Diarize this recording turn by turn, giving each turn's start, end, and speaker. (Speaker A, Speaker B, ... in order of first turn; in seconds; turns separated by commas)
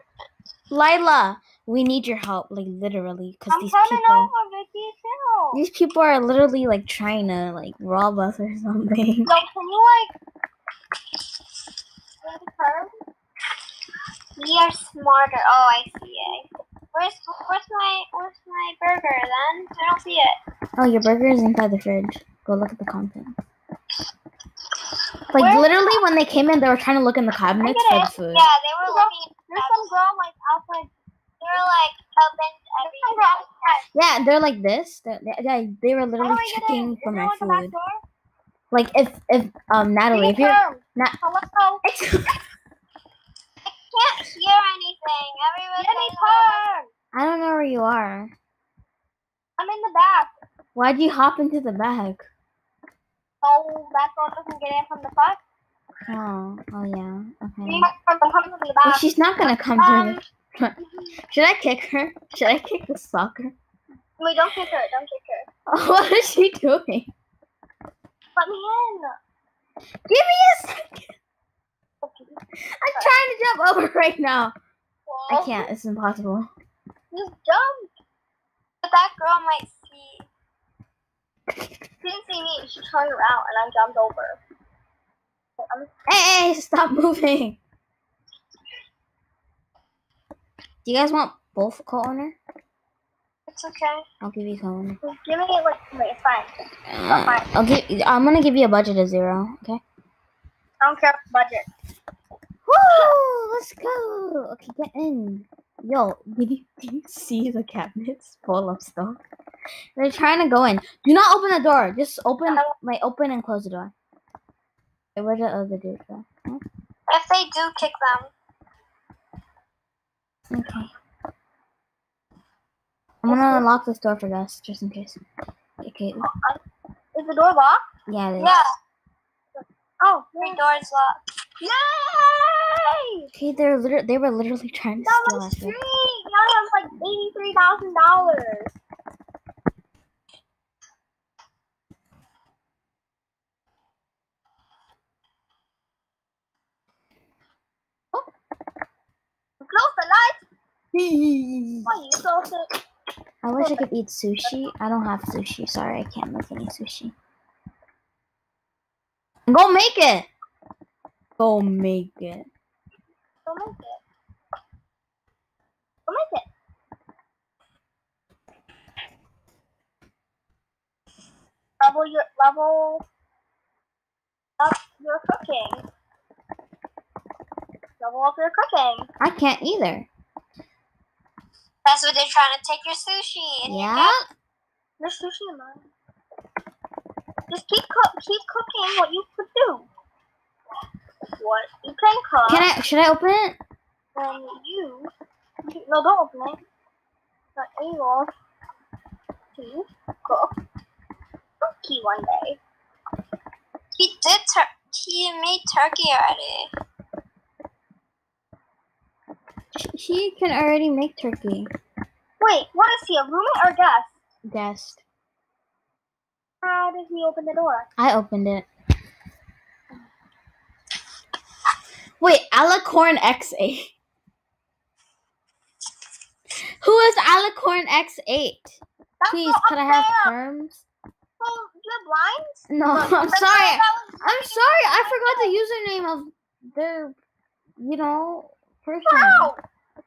Speaker A: 0.7-4.3, Speaker B: 3.5-5.6, Speaker A: 5.5-9.3, Speaker B: 9.2-10.1, Speaker B: 12.2-13.0, Speaker C: 14.4-20.4, Speaker A: 20.8-23.4, Speaker A: 25.3-28.5, Speaker C: 25.4-25.7, Speaker B: 27.6-28.0, Speaker C: 28.0-29.9, Speaker B: 28.8-30.9, Speaker C: 31.4-33.8, Speaker B: 32.8-33.8, Speaker A: 33.9-37.7, Speaker B: 36.2-38.0, Speaker A: 38.7-41.1, Speaker B: 40.1-41.8, Speaker A: 41.8-42.4, Speaker C: 43.6-46.7, Speaker B: 45.8-46.9, Speaker A: 47.1-48.3, Speaker B: 49.6-50.3, Speaker A: 50.7-52.3, Speaker B: 53.4-55.4, Speaker A: 56.1-57.9, Speaker B: 57.6-59.0, Speaker A: 58.8-63.5, Speaker B: 59.8-60.2, Speaker B: 64.2-65.5, Speaker A: 65.7-67.1, Speaker B: 68.3-69.2, Speaker A: 70.1-71.2, Speaker B: 72.0-72.4, Speaker A: 72.6-74.5, Speaker B: 75.1-75.7, Speaker A: 75.3-76.5, Speaker B: 77.1-77.9, Speaker C: 78.8-80.3, Speaker B: 82.0-84.4, Speaker B: 85.6-85.9, Speaker A: 86.1-87.6, Speaker A: 90.8-92.4, Speaker C: 93.5-94.0, Speaker A: 94.2-95.0, Speaker B: 95.0-96.5, Speaker A: 96.9-99.8, Speaker B: 97.1-97.5, Speaker B: 100.8-101.7, Speaker A: 102.7-109.2, Speaker A: 110.0-113.9, Speaker A: 115.1-116.6, Speaker C: 117.1-118.3, Speaker A: 120.5-120.9, Speaker A: 123.2-125.2, Speaker B: 123.3-123.7, Speaker A: 125.8-126.3, Speaker B: 126.2-126.6, Speaker B: 127.1-127.8, Speaker A: 128.1-128.5, Speaker C: 128.4-128.7, Speaker B: 128.4-128.7, Speaker B: 129.5-130.6, Speaker C: 130.4-131.2, Speaker B: 131.6-133.3, Speaker A: 133.3-135.8, Speaker B: 135.0-138.7, Speaker B: 149.6-150.4, Speaker A: 150.9-151.9, Speaker B: 151.8-152.7, Speaker A: 153.4-157.1, Speaker B: 153.6-153.9, Speaker A: 159.5-160.3, Speaker A: 161.4-162.5, Speaker B: 163.4-164.0, Speaker B: 166.1-166.5, Speaker B: 171.8-173.0, Speaker B: 174.6-175.8, Speaker B: 178.0-179.1, Speaker A: 179.2-180.1, Speaker C: 181.8-184.2, Speaker A: 183.7-184.2, Speaker B: 185.0-185.9, Speaker B: 187.5-189.9, Speaker B: 191.4-192.7, Speaker A: 192.4-193.6, Speaker B: 194.1-195.1, Speaker B: 195.6-196.6, Speaker B: 197.6-198.3, Speaker B: 199.5-200.5, Speaker B: 201.6-202.6, Speaker C: 203.9-206.7, Speaker A: 209.7-211.7, Speaker B: 212.4-214.2, Speaker A: 214.4-215.0, Speaker B: 216.6-217.9, Speaker A: 218.0-218.7, Speaker A: 222.2-223.9, Speaker A: 226.6-230.8, Speaker B: 229.2-230.3, Speaker B: 231.4-235.5, Speaker A: 232.7-237.2, Speaker A: 237.8-239.5, Speaker B: 239.1-239.6